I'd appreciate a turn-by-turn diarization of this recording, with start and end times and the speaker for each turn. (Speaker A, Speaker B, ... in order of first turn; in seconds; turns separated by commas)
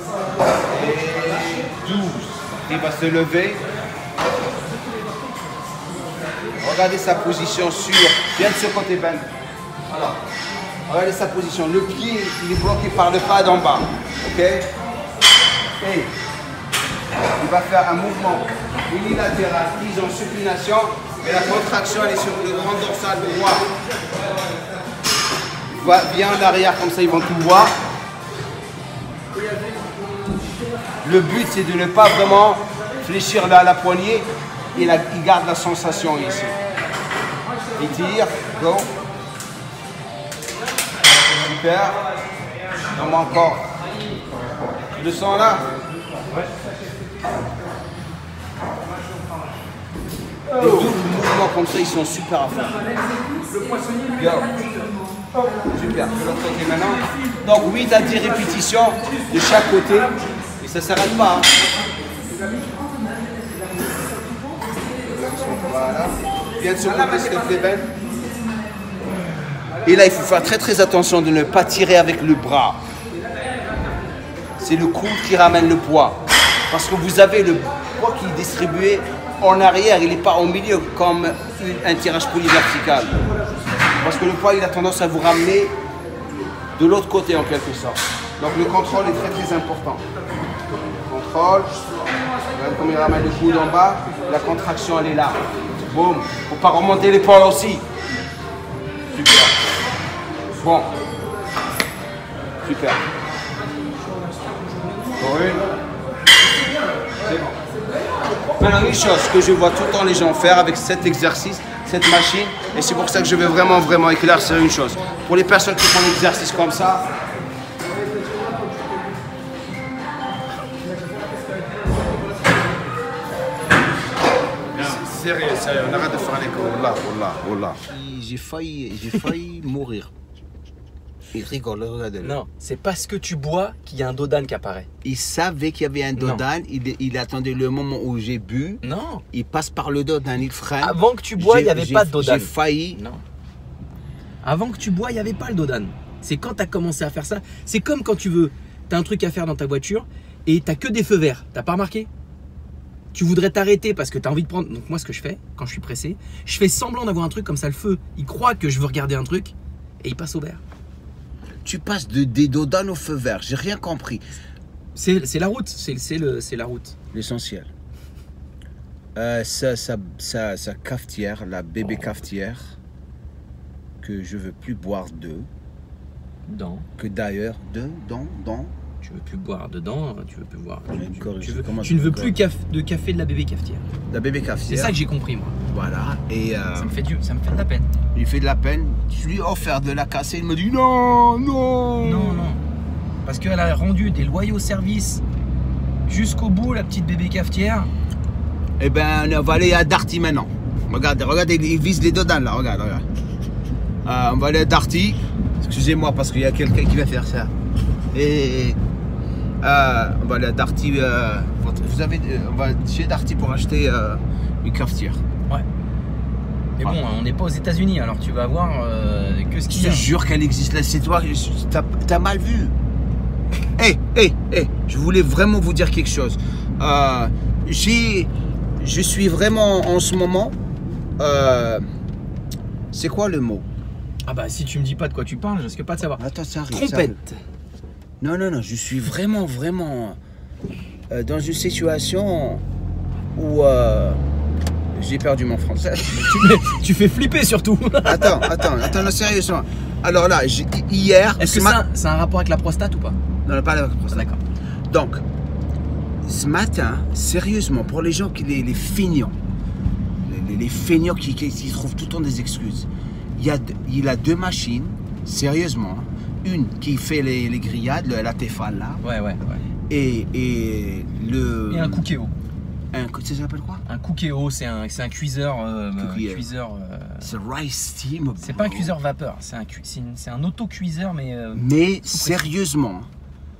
Speaker A: 0.6-3.6, Speaker A: 6.6-9.3, Speaker A: 9.9-10.2, Speaker A: 10.8-14.7, Speaker A: 15.8-16.1, Speaker A: 17.4-23.7, Speaker A: 25.7-27.7, Speaker A: 31.0-36.5, Speaker A: 37.7-38.9, Speaker A: 41.3-42.0, Speaker A: 42.9-43.7, Speaker A: 44.9-45.7, Speaker A: 50.6-52.9, Speaker A: 54.1-54.7, Speaker A: 55.6-61.5, Speaker A: 65.0-67.9, Speaker A: 69.8-72.8, Speaker A: 74.6-83.2, Speaker A: 84.0-85.8, Speaker A: 86.8-90.0, Speaker A: 91.0-91.7, Speaker A: 92.4-97.9, Speaker A: 99.1-99.6, Speaker A: 100.6-100.9, Speaker A: 102.6-103.0, Speaker B: 104.1-105.2, Speaker A: 105.2-105.7, Speaker A: 107.2-107.6, Speaker A: 108.6-117.1, Speaker A: 124.7-130.1, Speaker A: 131.3-132.4, Speaker B: 132.2-134.9, Speaker A: 135.0-143.0, Speaker B: 136.2-136.4, Speaker B: 138.8-139.2, Speaker B: 140.8-143.2, Speaker B: 144.4-152.1, Speaker B: 153.1-160.6, Speaker A: 161.6-164.2, Speaker B: 164.9-166.9, Speaker A: 167.1-167.7, Speaker A: 169.2-172.8, Speaker A: 174.0-175.5, Speaker B: 176.4-176.9, Speaker A: 177.0-178.7, Speaker B: 179.0-183.8, Speaker A: 180.9-182.3, Speaker A: 184.1-184.9, Speaker B: 184.7-185.6, Speaker A: 185.7-186.9, Speaker B: 186.7-187.9, Speaker A: 188.1-192.5, Speaker B: 192.0-192.6, Speaker B: 193.2-195.2, Speaker B: 196.1-197.9, Speaker A: 198.8-203.1, Speaker A: 204.0-207.5, Speaker A: 208.1-208.8, Speaker A: 209.6-215.2, Speaker B: 216.8-220.1, Speaker A: 219.7-222.8, Speaker A: 223.8-230.6, Speaker A: 231.2-231.9, Speaker A: 232.9-233.7, Speaker B: 234.2-237.4, Speaker A: 236.2-237.2, Speaker A: 238.2-240.2, Speaker A: 241.1-242.6, Speaker A: 243.3-244.2, Speaker A: 244.9-246.8, Speaker B: 246.1-248.8, Speaker A: 248.0-251.8, Speaker B: 251.4-253.2, Speaker A: 253.4-254.3, Speaker B: 254.1-254.4, Speaker A: 254.9-255.2, Speaker A: 256.2-259.4, Speaker A: 260.2-269.0, Speaker B: 269.0-269.6, Speaker A: 269.9-272.1, Speaker B: 271.7-272.3, Speaker A: 272.9-273.8, Speaker B: 273.9-277.3, Speaker A: 276.0-276.5, Speaker A: 277.2-278.9, Speaker B: 278.4-282.5, Speaker A: 281.5-283.1